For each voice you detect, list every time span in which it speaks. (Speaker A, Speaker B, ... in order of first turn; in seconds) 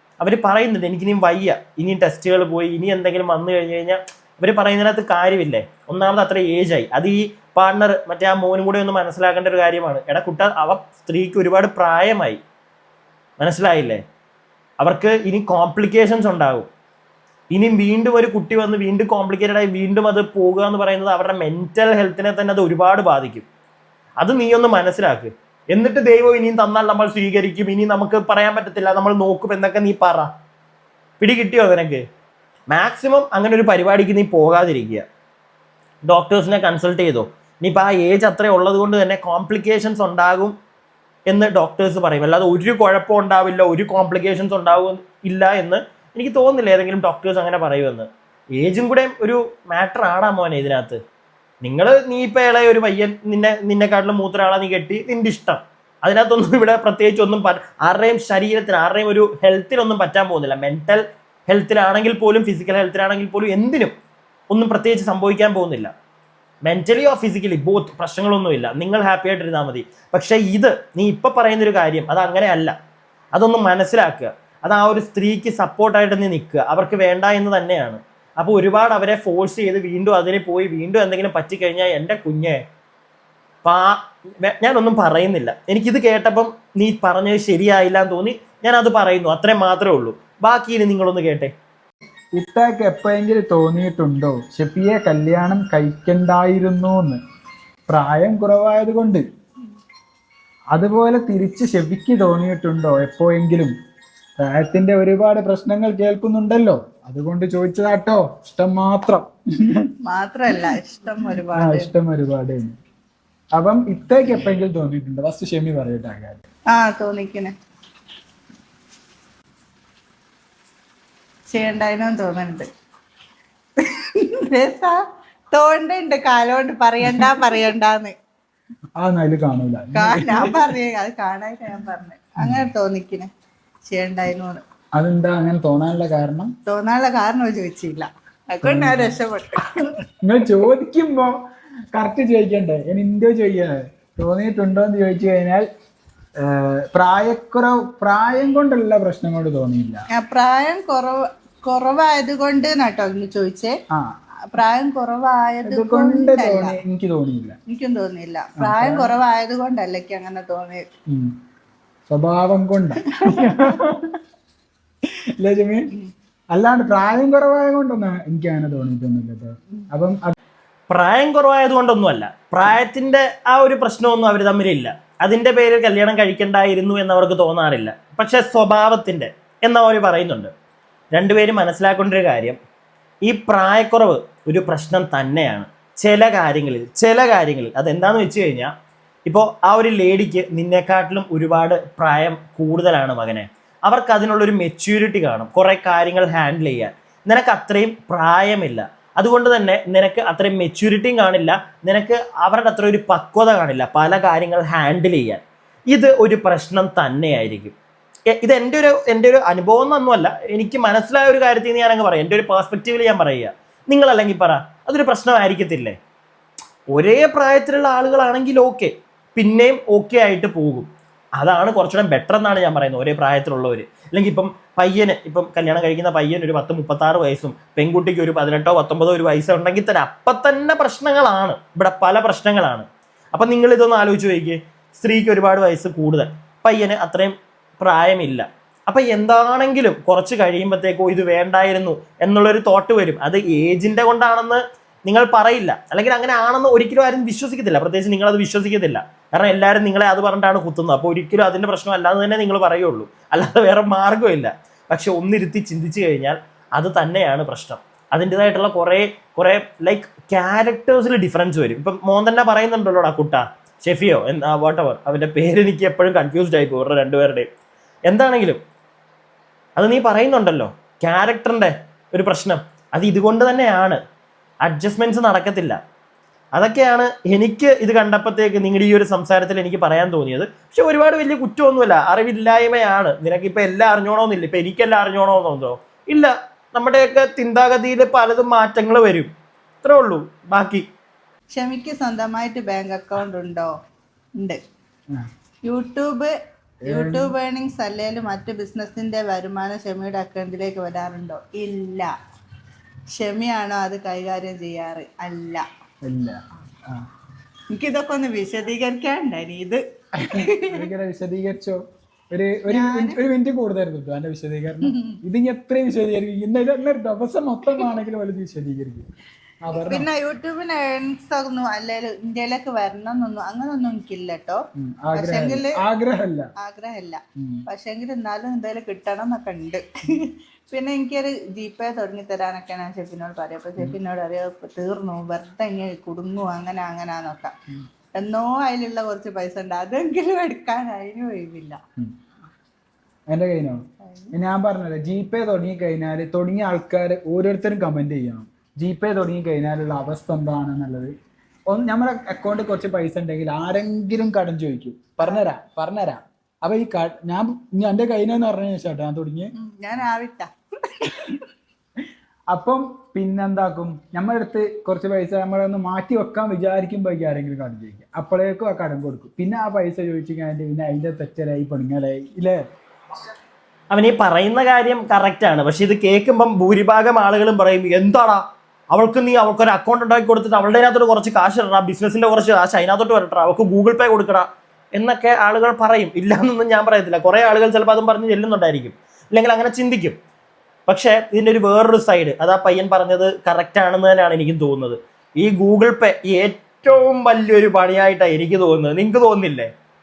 Speaker A: 0.2-12.4, 13.4-14.0, 14.8-16.7, 17.5-23.5, 24.2-30.3, 31.2-32.0, 32.7-35.1, 36.0-40.5, 41.3-51.0, 51.6-63.9, 64.5-65.9, 66.6-72.8, 73.3-82.6, 83.6-91.5, 170.9-180.5, 181.1-182.6, 183.2-188.7, 189.3-207.7, 208.3-216.0, 216.9-267.5, 268.1-268.6, 269.8-274.0, 274.6-275.8, 276.6-289.3, 289.8-290.9, 373.9-378.4, 378.9-390.2, 390.9-399.7
Speaker B: 92.4-97.2, 97.9-99.2, 100.7-103.7, 104.4-109.2, 111.6-112.7, 113.6-116.4, 129.0-130.6, 135.0-136.5, 138.6-139.1, 140.2-141.3, 141.9-145.7, 146.4-150.0, 155.7-157.6, 158.6-159.1, 162.1-164.1, 165.4-165.9, 166.5-170.3, 296.9-297.3, 306.1-307.0, 310.7-311.8, 312.3-319.1, 319.6-320.1, 324.8-326.4, 327.4-327.6, 343.3-343.8, 344.3-351.1, 351.7-359.5, 362.5-372.6
Speaker C: 110.1-111.9, 116.7-117.5, 121.5-122.7, 124.2-125.0, 125.5-128.1, 129.9-133.3, 133.9-134.6, 136.7-139.7, 150.2-153.7, 154.5-156.8, 157.7-160.8, 163.2-163.6, 291.5-293.7, 295.6-296.3, 296.9-302.1, 303.1-305.6, 307.7-309.8, 310.3-310.9, 312.7-313.2, 314.8-315.2, 319.7-324.6, 325.1-325.8, 326.6-337.5, 338.1-341.8, 344.0-344.3, 359.6-360.5